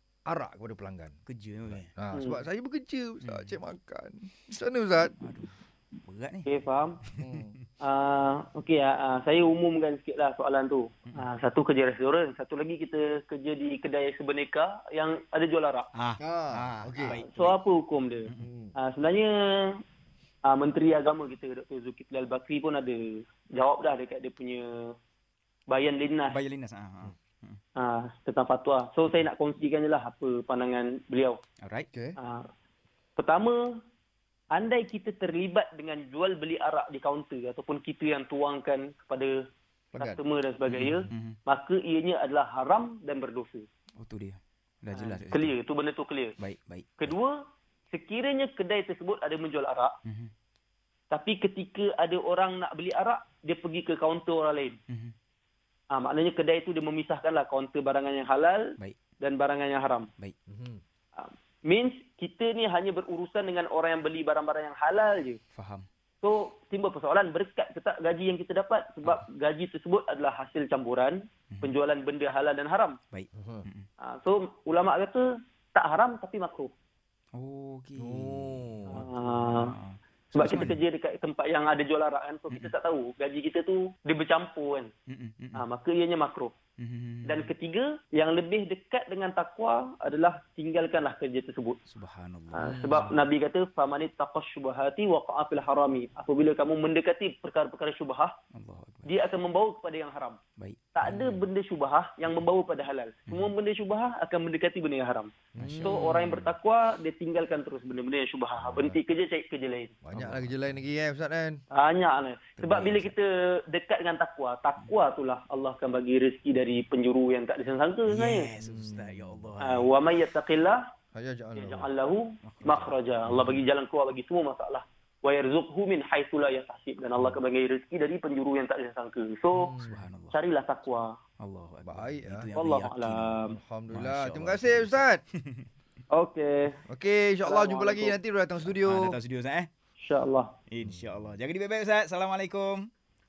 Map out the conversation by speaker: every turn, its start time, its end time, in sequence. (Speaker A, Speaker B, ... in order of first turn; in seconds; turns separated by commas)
Speaker A: 0.3-5.2, Speaker B: 1.2-1.9, Speaker C: 2.1-2.4, Speaker B: 3.2-3.6, Speaker B: 5.1-6.5, Speaker C: 6.5-7.0, Speaker B: 7.0-7.6, Speaker A: 7.2-7.5, Speaker C: 7.8-15.9, Speaker B: 15.9-17.6, Speaker A: 16.2-17.2, Speaker C: 17.0-19.8, Speaker A: 18.4-18.7, Speaker C: 20.4-24.9, Speaker C: 25.7-26.4, Speaker B: 26.3-27.6, Speaker C: 27.8-31.4, Speaker B: 31.6-31.9, Speaker A: 31.9-32.2, Speaker C: 32.2-32.5, Speaker C: 33.2-33.6, Speaker C: 34.5-39.3, Speaker A: 39.9-40.2, Speaker C: 40.0-43.6, Speaker B: 40.6-41.4, Speaker B: 44.0-45.5, Speaker C: 44.9-46.4, Speaker B: 46.4-47.1, Speaker C: 47.0-47.4, Speaker C: 47.9-49.9, Speaker B: 50.0-50.3, Speaker C: 51.1-54.8, Speaker B: 54.9-55.1, Speaker C: 55.9-60.1, Speaker A: 60.5-60.8, Speaker C: 61.1-65.4, Speaker B: 65.5-65.8, Speaker C: 66.2-73.0, Speaker B: 73.1-73.9, Speaker A: 73.3-73.7, Speaker C: 74.0-75.2, Speaker C: 75.7-76.7, Speaker B: 77.3-80.8, Speaker A: 78.0-79.0, Speaker C: 78.9-79.7, Speaker C: 80.3-84.9, Speaker B: 85.1-85.6, Speaker C: 85.5-86.5, Speaker B: 86.8-87.5, Speaker C: 87.2-91.8, Speaker B: 91.9-93.2, Speaker C: 92.5-98.3, Speaker B: 98.5-99.1, Speaker C: 99.0-100.4, Speaker B: 100.6-101.4, Speaker C: 100.9-105.3, Speaker B: 103.3-103.5, Speaker A: 105.5-106.4, Speaker B: 105.6-106.4, Speaker C: 105.8-110.0, Speaker A: 108.6-109.0, Speaker A: 110.0-111.6, Speaker B: 110.1-110.8, Speaker C: 111.7-118.5, Speaker B: 112.6-113.1, Speaker B: 118.1-119.9, Speaker A: 118.6-119.6, Speaker C: 119.6-120.8, Speaker A: 121.1-121.9, Speaker C: 121.5-129.7, Speaker B: 122.4-123.5, Speaker A: 123.3-123.6, Speaker A: 129.5-130.1, Speaker B: 129.8-130.4, Speaker C: 130.3-131.2, Speaker B: 131.4-133.4, Speaker A: 131.8-132.5, Speaker C: 132.6-133.6, Speaker A: 133.5-135.2, Speaker B: 133.9-135.7, Speaker C: 136.1-136.8, Speaker A: 136.8-139.2, Speaker C: 137.4-138.2, Speaker B: 138.6-139.7, Speaker C: 140.0-140.5, Speaker B: 140.7-142.9, Speaker A: 140.8-141.3